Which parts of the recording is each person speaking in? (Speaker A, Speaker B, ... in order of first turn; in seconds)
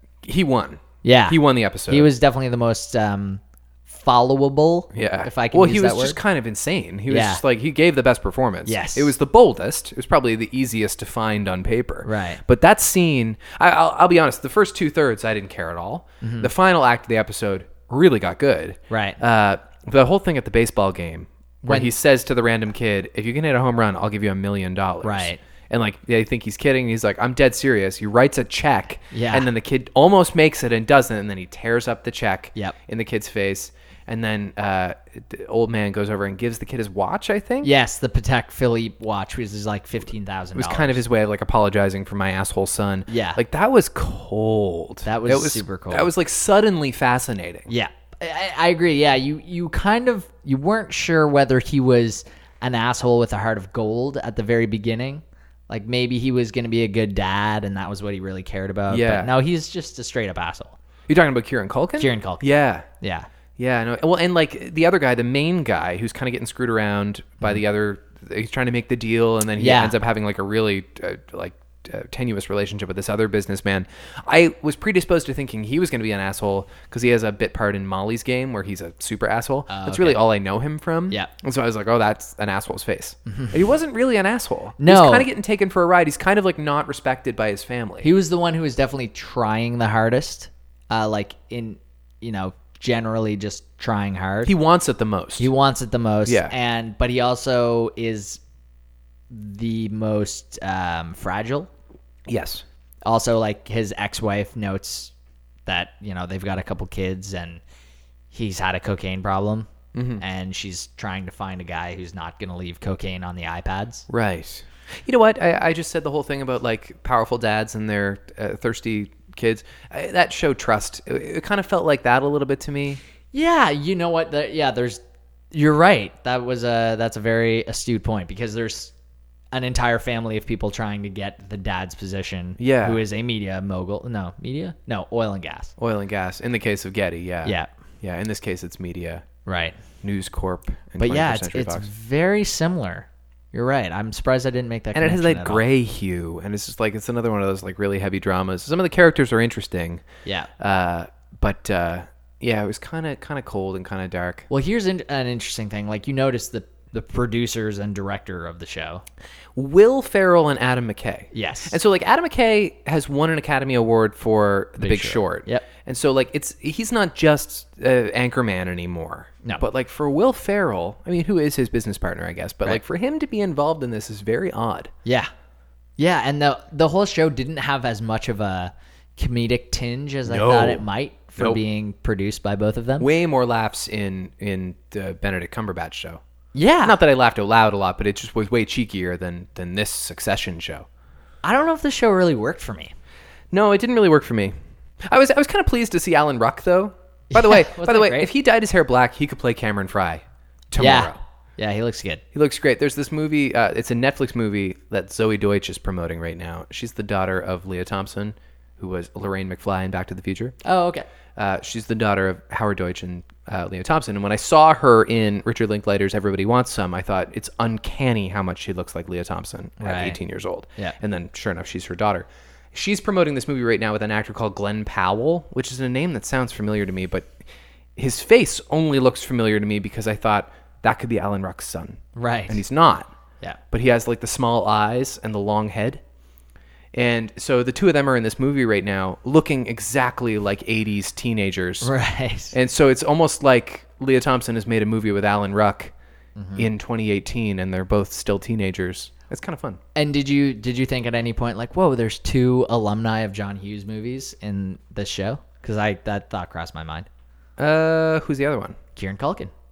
Speaker A: 0.2-2.1, 4.9-37.7, 40.5-47.7, 58.9-59.3, 61.1-62.9, 63.6-88.1, 94.5-95.5, 96.3-96.5, 102.3-102.6, 109.9-110.2, 114.1-123.0, 132.6-133.0, 135.8-139.3, 140.0-141.9, 144.9-150.1, 150.6-154.5, 159.6-174.9, 180.3-180.8, 183.0-186.2, 186.8-190.9, 193.5-194.6, 195.1-201.2, 202.3-210.6, 211.4-227.4, 227.9-233.1, 233.7-236.0, 236.9-241.9, 242.5-245.9, 246.6-249.8, 257.6-258.8
Speaker B: 1.0-6.2, 7.1-7.4, 8.7-9.1, 12.1-12.4, 16.2-16.5, 18.9-19.2, 21.6-21.9, 25.0-25.4, 29.1-29.5, 37.6-41.0, 43.1-43.4, 45.0-46.1, 47.7-60.8, 62.0-62.5, 63.0-63.3, 69.6-70.0, 79.7-80.2, 83.3-83.5, 84.8-85.3, 88.0-94.5, 95.4-98.4, 99.3-101.7, 103.0-105.1, 105.7-107.6, 108.3-114.1, 123.3-125.0, 125.5-128.9, 129.5-135.7, 139.4-139.8, 141.0-145.6, 150.2-150.5, 154.5-159.0, 161.3-161.8, 164.8-165.7, 175.1-175.3, 176.0-183.1, 186.6-187.0, 191.4-192.9, 197.3-198.3, 200.8-202.2, 210.6-211.1, 219.8-220.2, 232.2-232.6, 241.8-242.6, 246.4-246.7, 249.9-257.1, 258.9-259.5